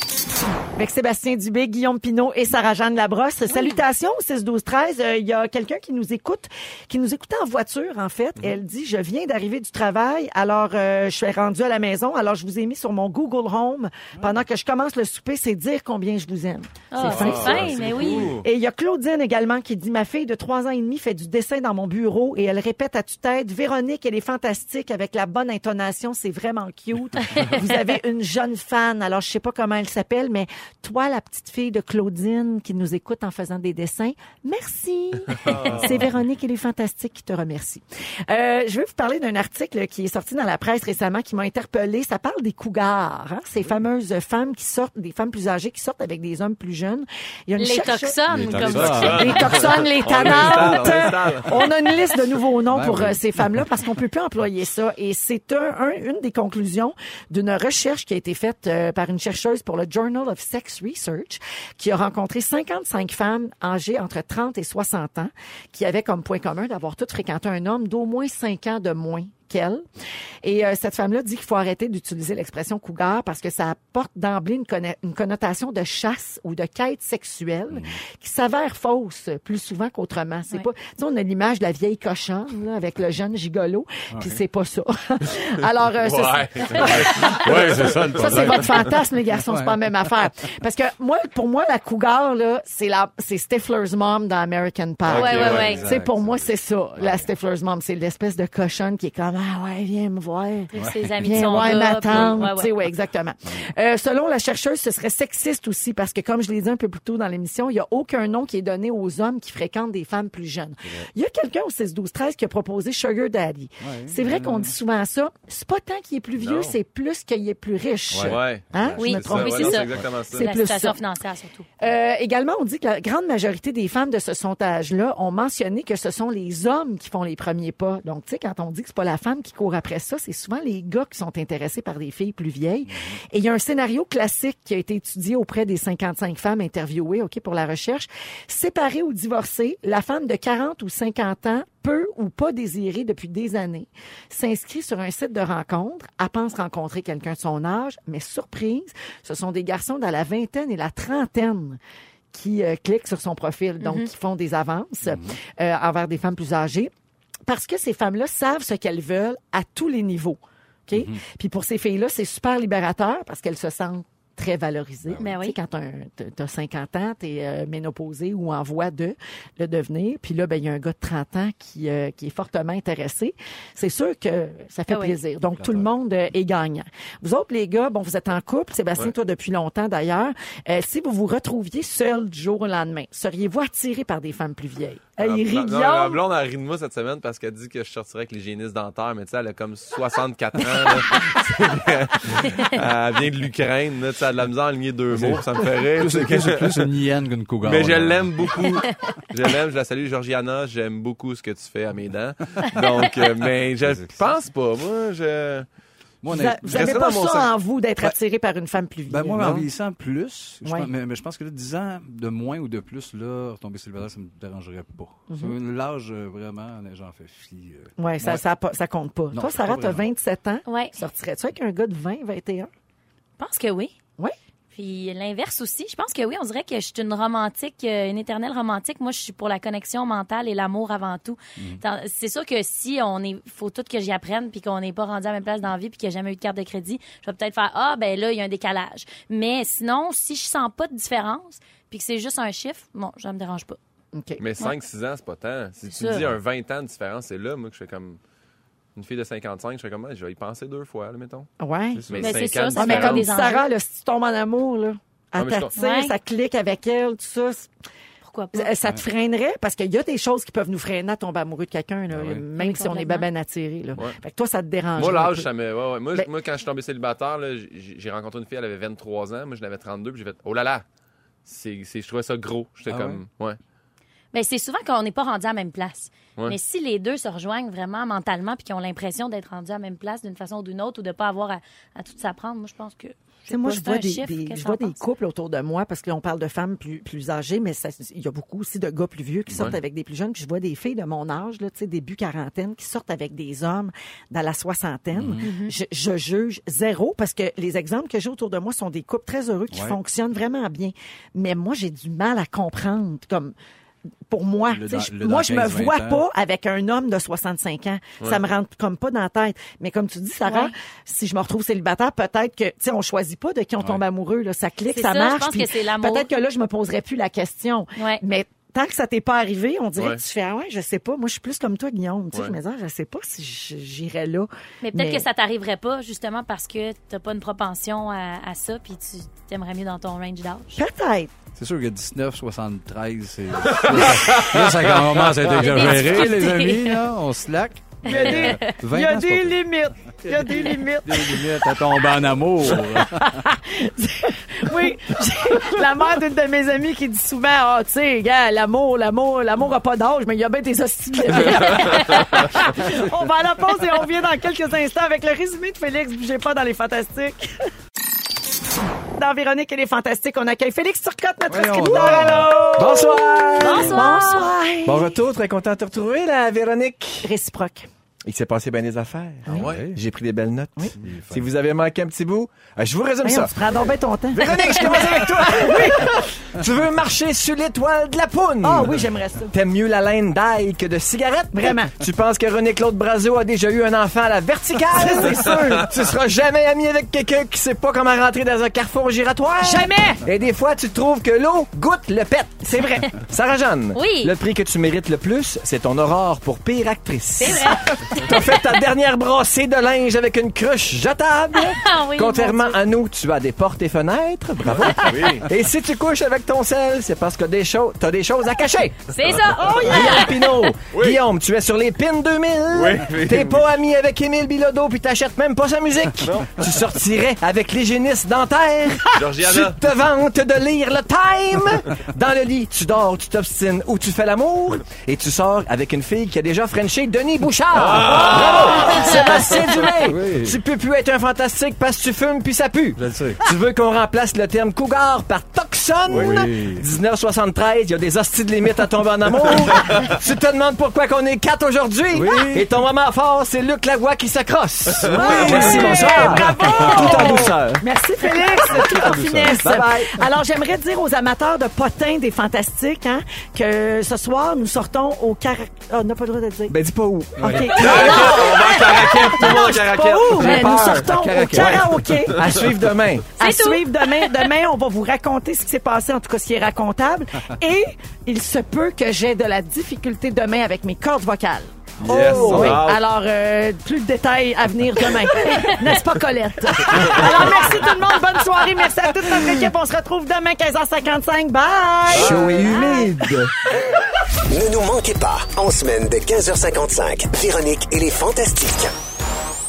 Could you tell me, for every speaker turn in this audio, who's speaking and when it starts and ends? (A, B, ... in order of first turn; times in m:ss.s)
0:00.7-1:09.8 A
0:03.5-0:03.8 B
0:16.9-0:18.4 B
0:17.0-0:18.3 C
0:17.0-0:18.4 D
0:27.3-0:27.6 B
0:35.4-0:36.1 D
0:47.6-0:49.7 B
0:48.3-0:49.5 C
0:48.5-0:51.6 D
0:50.2-0:50.7 C
0:52.7-0:53.6 C
1:10.4-1:59.8 A
1:17.7-1:18.0 C
1:24.1-1:24.4 C
1:26.0-1:28.8 D
1:26.7-1:30.3 C
1:35.1-1:35.8 D
1:35.1-1:37.3 C
1:35.1-1:35.8 B
1:40.7-1:42.8 B
1:40.8-1:41.5 C
1:41.6-1:42.3 D
1:53.8-1:54.7 C
1:56.4-1:56.8 D
1:58.1-2:00.1 C
1:58.2-2:00.5 D
1:59.0-2:01.7 B
2:00.3-2:01.0 A
2:01.8-2:31.8 A
2:12.9-2:13.2 C
2:32.3-2:36.9 A
2:33.8-2:34.1 B
2:35.0-2:35.4 C
2:37.5-3:06.2 A
2:40.9-2:41.2 C
2:45.2-2:45.6 B
2:54.9-2:55.2 B
2:55.6-2:55.9 C
3:05.2-3:16.9 D
3:12.4-3:12.7 B
3:15.1-3:18.6 C
3:17.6-3:25.7 D
3:23.6-3:24.4 C
3:26.2-3:26.9 C
3:26.3-3:29.6 A
3:26.6-3:27.5 D
3:29.1-3:38.4 C
3:29.4-3:29.6 D
3:38.0-3:42.7 A
3:39.3-3:40.0 C
3:40.6-3:41.0 B
3:43.4-3:43.9 B
3:44.7-4:03.8 B
4:04.1-4:04.4 A
4:04.4-4:08.2 D
4:05.8-4:06.3 B
4:09.0-4:11.5 D
4:11.6-4:17.7 A
4:11.9-4:12.3 C
4:12.0-4:13.3 D
4:12.2-4:13.7 B
4:15.4-4:15.7 D
4:15.7-4:16.2 B
4:18.2-4:18.7 B
4:18.5-4:25.5 A
4:22.1-4:22.4 C
4:22.6-4:23.3 B
4:25.0-4:30.8 D
4:31.4-4:33.6 D
4:32.8-4:33.2 C
4:34.3-4:45.0 B
4:43.5-5:03.5 A
4:49.5-4:49.8 D
4:55.1-4:55.5 C
4:55.4-4:55.7 B
4:59.7-5:00.0 C
5:04.3-5:25.2 A
5:04.7-5:06.2 C
5:10.4-5:10.7 B
5:13.8-5:14.0 C
5:14.9-5:16.3 B
5:17.9-5:18.2 B
5:20.0-5:20.2 D
5:24.8-5:30.8 B
5:30.8-5:31.3 A
5:31.5-5:39.7 C
5:33.7-5:35.5 D
5:35.5-5:37.0 B
5:38.0-5:38.8 B
5:38.0-5:41.6 A
5:40.3-5:43.4 C
5:43.2-5:57.5 A
5:51.3-5:52.5 D
5:51.4-5:52.3 B
5:59.1-6:05.1 A
6:01.5-6:02.6 C
6:01.9-6:07.3 E
6:03.6-6:04.5 B
6:07.2-6:07.9 A
6:08.2-6:13.6 E
6:09.4-6:09.7 A
6:09.5-6:09.8 D
6:09.6-6:10.0 C
6:11.0-6:11.5 C
6:13.2-6:16.2 A
6:14.3-6:19.0 E
6:18.6-6:19.5 A
6:19.5-6:32.6 E
6:21.5-6:21.9 A
6:24.9-6:25.9 A
6:29.6-6:30.2 A
6:32.6-6:33.2 A
6:33.1-7:27.8 E
6:33.9-6:34.3 B
6:37.4-6:38.6 B
6:41.5-6:42.8 B
6:44.6-6:45.5 D
6:49.1-6:50.7 B
6:49.4-6:50.2 D
6:49.5-6:50.3 A
6:50.9-6:51.2 D
6:52.7-6:53.7 D
6:56.2-6:56.7 D
6:59.1-6:59.8 D
7:07.7-7:09.9 D
7:08.9-7:09.5 B
7:10.0-7:10.6 C
7:13.0-7:13.4 C
7:16.1-7:16.8 C
7:19.5-7:19.9 D
7:22.1-7:22.7 C
7:24.9-7:26.3 D
7:25.1-7:36.8 A
7:25.2-7:27.2 C
7:27.0-7:27.2 D
7:28.7-7:29.6 C
7:28.7-7:30.1 E
7:36.7-7:39.6 E
7:37.4-7:42.7 A
7:37.4-7:37.8 C
7:37.7-7:40.7 D
7:40.2-7:43.4 E
7:41.2-7:41.8 C
7:42.3-7:42.6 D
7:43.4-7:44.5 B
7:43.4-8:03.2 A
7:52.0-7:53.0 D
7:52.0-7:52.8 E
7:55.5-7:55.8 B
7:56.9-7:57.6 D
8:02.1-8:03.5 E
8:02.1-8:02.6 D
8:04.5-8:08.9 F